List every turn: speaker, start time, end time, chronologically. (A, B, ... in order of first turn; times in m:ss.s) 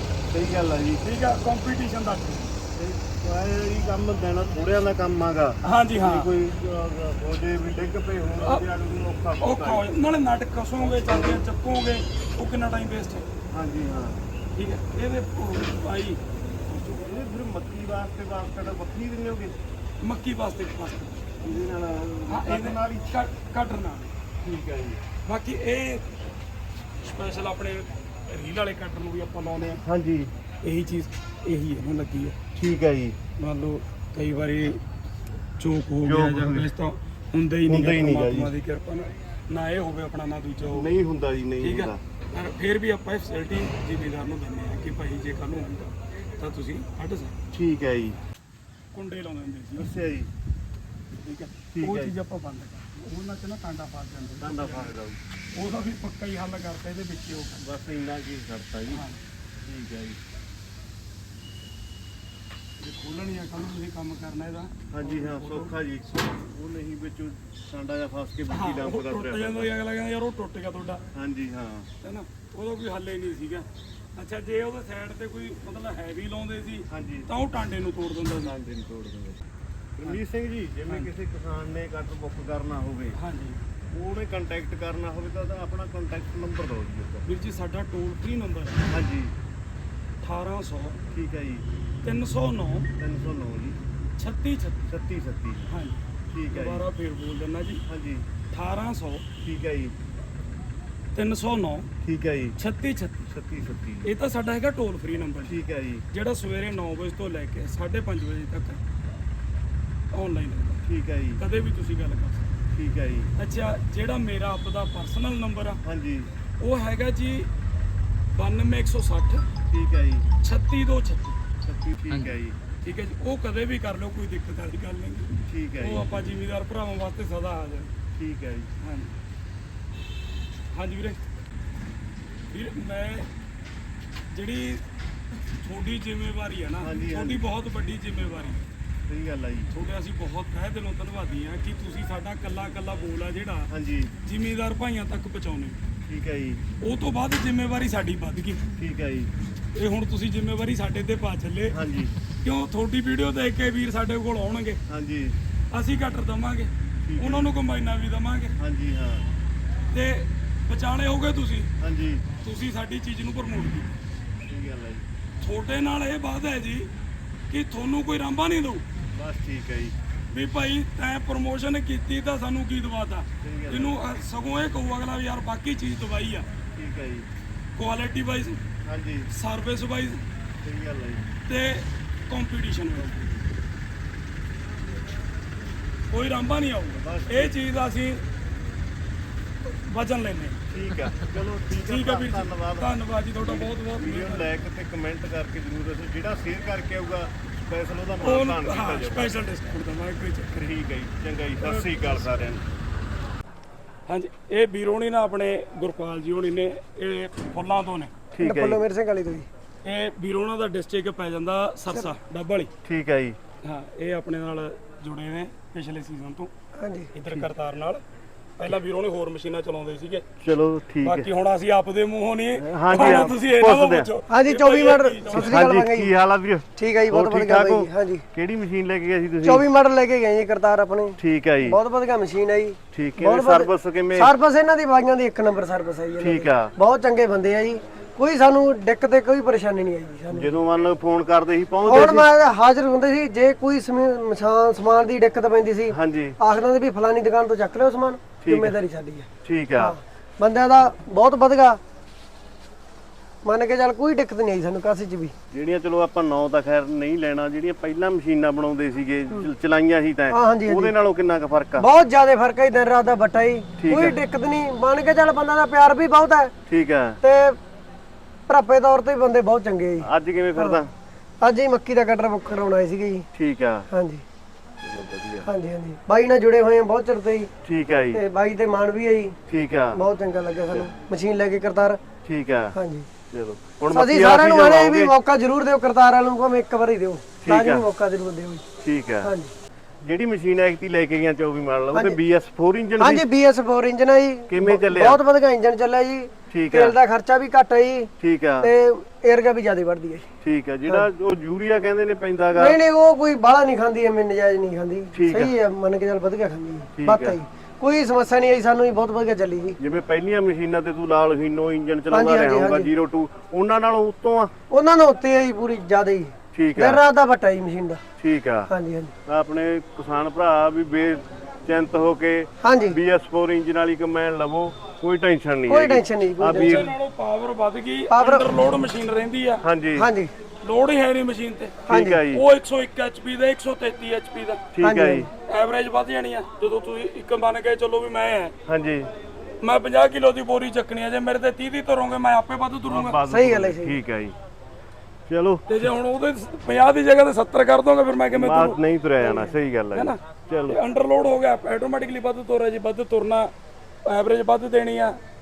0:00.3-0:01.0 A
0:01.0-0:02.6 B
0:02.7-0:09.8 A
0:05.6-0:06.3 B
0:09.4-0:13.3 B
0:10.8-0:11.4 A
0:13.5-0:14.2 A
0:14.5-0:17.1 B
0:17.0-0:19.6 A
0:20.0-0:21.2 B
0:21.4-0:23.1 A
0:22.3-0:24.2 B
0:24.4-0:25.0 A
0:25.2-0:26.1 B
0:27.0-0:29.8 B
0:29.6-0:30.3 A
0:30.6-0:32.4 B
0:32.6-0:33.2 A
0:33.4-0:34.8 B
0:35.6-0:40.9 B
0:36.0-0:36.7 A
0:37.6-0:38.5 A
0:40.7-0:42.0 A
0:41.6-0:47.4 B
0:47.5-0:48.2 A
0:48.9-0:49.9 B
0:49.8-0:50.3 A
0:51.2-0:54.9 B
0:51.7-0:52.1 A
0:54.4-0:55.2 A
0:55.5-0:57.6 B
0:57.6-0:59.0 A
0:58.9-0:59.2 B
0:59.6-1:00.2 A
1:02.8-1:05.8 B
1:04.9-1:09.7 A
1:08.5-1:11.0 B
1:11.1-1:11.9 A
1:12.0-1:18.5 B
1:16.9-1:17.3 A
1:18.4-1:19.4 A
1:20.0-1:23.2 A
1:23.1-1:23.6 B
1:23.9-1:27.3 A
1:27.2-1:28.9 B
1:28.9-1:29.3 A
1:30.2-1:31.0 B
1:31.1-1:31.6 A
1:32.0-1:32.9 B
1:33.0-1:33.8 A
1:34.2-1:34.9 B
1:34.9-1:35.7 A
1:35.7-1:36.0 B
1:36.3-1:36.8 A
1:36.5-1:37.8 B
1:37.8-1:38.2 A
1:38.5-1:39.2 B
1:39.4-1:39.9 A
1:41.1-1:41.9 B
1:42.0-1:42.6 A
1:42.6-1:43.3 B
1:43.3-1:44.1 A
1:44.0-1:48.8 B
1:45.4-1:46.0 A
1:50.1-1:50.8 B
1:50.8-1:51.4 A
1:51.4-1:52.5 B
1:52.7-1:53.3 A
1:53.4-1:55.8 B
1:55.8-1:56.3 A
1:56.6-1:57.5 B
1:58.3-1:59.5 B
1:59.7-2:00.3 A
2:00.4-2:01.4 B
2:01.6-2:02.6 A
2:02.8-2:07.9 B
2:05.4-2:06.1 A
2:08.2-2:08.7 A
2:08.8-2:09.2 B
2:10.7-2:11.2 B
2:12.5-2:13.3 B
2:14.3-2:14.8 B
2:15.6-2:18.6 B
2:16.8-2:17.4 A
2:19.1-2:19.7 A
2:19.7-2:23.7 B
2:23.7-2:24.1 A
2:24.2-2:25.8 B
2:26.1-2:26.6 A
2:26.8-2:28.6 B
2:28.8-2:29.3 A
2:29.7-2:31.8 B
2:31.7-2:32.2 A
2:32.4-2:34.8 B
2:34.9-2:35.4 A
2:35.7-2:38.6 B
2:37.1-2:37.5 A
2:38.6-2:39.2 A
2:39.9-2:41.7 B
2:41.8-2:42.2 A
2:42.4-2:43.9 B
2:44.4-2:45.0 A
2:45.4-2:46.9 B
2:47.5-2:48.8 B
2:49.1-2:49.9 A
2:50.3-2:56.5 B
2:53.4-2:54.0 A
2:56.8-2:57.3 A
2:57.8-2:58.6 B
2:58.8-2:59.3 A
2:59.3-3:00.2 B
3:00.6-3:01.3 A
3:01.5-3:03.3 B
3:06.1-3:08.2 B
3:07.0-3:07.5 A
3:09.6-3:10.7 B
3:10.7-3:19.4 A
3:11.7-3:14.5 B
3:18.2-3:20.7 B
3:20.6-3:22.6 A
3:21.6-3:22.4 B
3:24.1-3:28.1 B
3:28.3-3:28.8 A
3:28.4-3:29.5 C
3:29.8-3:32.7 B
3:32.8-3:33.4 A
3:33.6-3:36.5 B
3:36.8-3:37.1 C
3:37.1-3:38.0 B
3:38.6-3:40.3 B
3:40.4-3:41.3 A
3:41.0-3:45.6 B
3:42.5-3:44.1 A
3:44.3-3:46.1 C
3:45.3-3:49.6 A
3:46.8-3:48.2 C
3:49.4-4:00.6 C
3:51.2-3:51.8 A
3:52.9-3:54.3 A
3:56.2-3:56.7 A
4:00.3-4:02.3 A
4:01.8-4:11.8 C
4:05.9-4:06.4 A
4:08.4-4:08.8 A
4:09.4-4:09.9 A
4:13.4-4:15.3 C
4:15.5-4:21.9 A
4:20.3-4:20.9 C
4:21.8-4:26.5 C
4:23.8-4:24.2 A
4:26.7-4:27.2 A
4:27.2-4:27.6 C
4:28.5-4:30.8 C
4:30.0-4:30.9 A
4:31.4-4:33.3 C
4:33.3-4:33.9 A
4:33.9-4:34.2 C
4:34.8-4:35.5 A
4:35.4-4:37.5 C
4:37.6-4:38.2 A
4:38.1-4:39.4 C
4:39.5-4:40.0 A
4:39.9-4:42.0 C
4:42.2-4:42.8 A
4:42.7-4:43.1 C
4:43.3-4:45.1 A
4:43.9-4:48.6 C
4:47.4-4:47.9 A
4:48.8-4:49.3 A
4:49.2-4:49.5 C
4:50.0-4:53.2 A
4:53.0-4:58.1 C
4:54.5-4:55.2 A
4:56.5-4:56.9 A
4:58.2-4:58.7 A
4:58.6-5:00.3 C
5:00.4-5:02.8 A
5:02.6-5:09.8 C
5:05.1-5:05.5 A
5:06.9-5:07.4 A
5:09.8-5:14.5 A
5:12.1-5:12.9 C
5:14.7-5:18.0 C
5:16.5-5:17.0 A
5:18.2-5:18.7 A
5:18.7-5:19.1 C
5:19.2-5:26.9 A
5:22.6-5:23.0 C
5:25.7-5:26.9 C
5:26.5-5:29.6 B
5:28.1-5:28.4 C
5:29.6-5:30.1 A
5:30.0-5:30.3 C
5:30.6-5:34.7 B
5:31.9-5:32.4 A
5:31.9-5:32.2 C
5:34.7-5:35.3 A
5:34.8-5:35.3 C
5:35.5-5:38.5 B
5:38.7-5:39.1 A
5:39.6-5:43.2 B
5:42.9-5:44.4 A
5:43.3-5:44.0 C
5:45.3-5:45.8 A
5:45.7-5:53.5 B
5:48.3-5:50.8 A
5:54.0-5:55.2 B